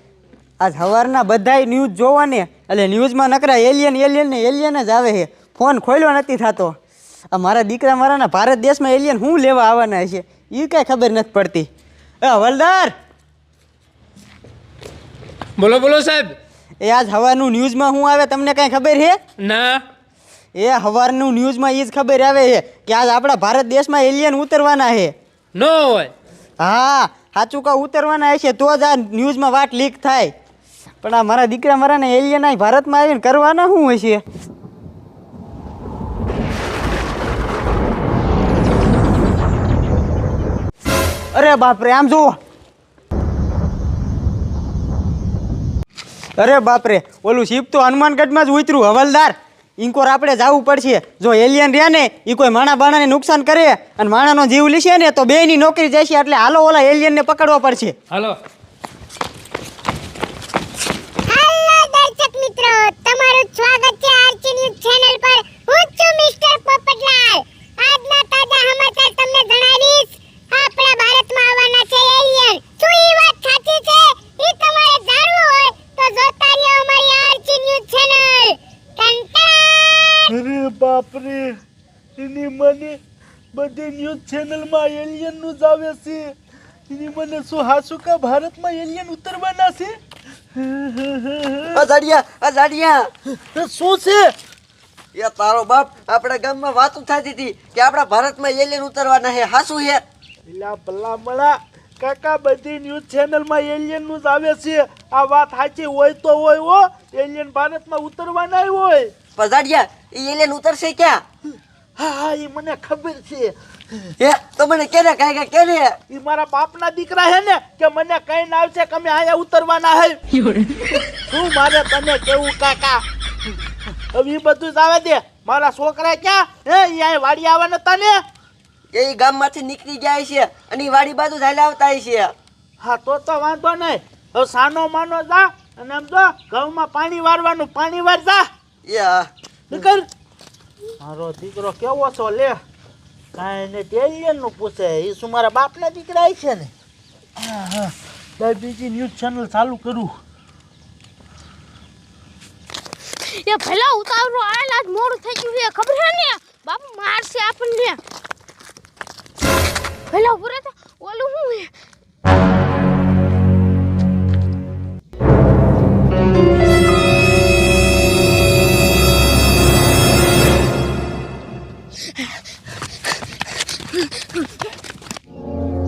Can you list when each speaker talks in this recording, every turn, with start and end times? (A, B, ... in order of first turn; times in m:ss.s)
0:00.6-0:06.7 A
0:07.3-0:11.7 A
0:12.2-0:12.9 A
0:15.6-0:16.4 B
0:16.8-0:19.2 A
0:19.4-0:19.8 B
0:20.5-0:25.1 A
0:25.5-0:26.1 B
0:26.6-0:30.3 A
0:31.0-0:34.2 A
0:41.3-0:42.3 A
0:46.4-0:57.9 A
0:58.1-0:58.4 B
1:01.3-1:20.3 C
1:20.3-1:21.6 D
1:22.2-1:23.0 D
1:23.5-1:26.3 D
1:26.9-1:30.0 D
1:30.5-1:31.8 D
1:31.7-1:33.1 E
1:33.4-1:34.3 D
1:35.1-1:40.0 E
1:40.4-1:49.1 D
1:49.4-1:51.2 E
1:52.0-1:54.1 D
1:54.2-1:56.0 E
1:56.1-2:00.2 D
2:01.1-2:03.0 D
2:04.1-2:08.2 D
2:08.9-2:12.3 E
2:12.8-2:18.4 D
2:18.8-2:19.3 E
2:19.7-2:20.1 D
2:21.0-2:22.6 D
2:23.3-2:26.7 D
2:27.4-2:30.2 D
2:33.2-2:38.0 F
2:40.1-2:41.7 F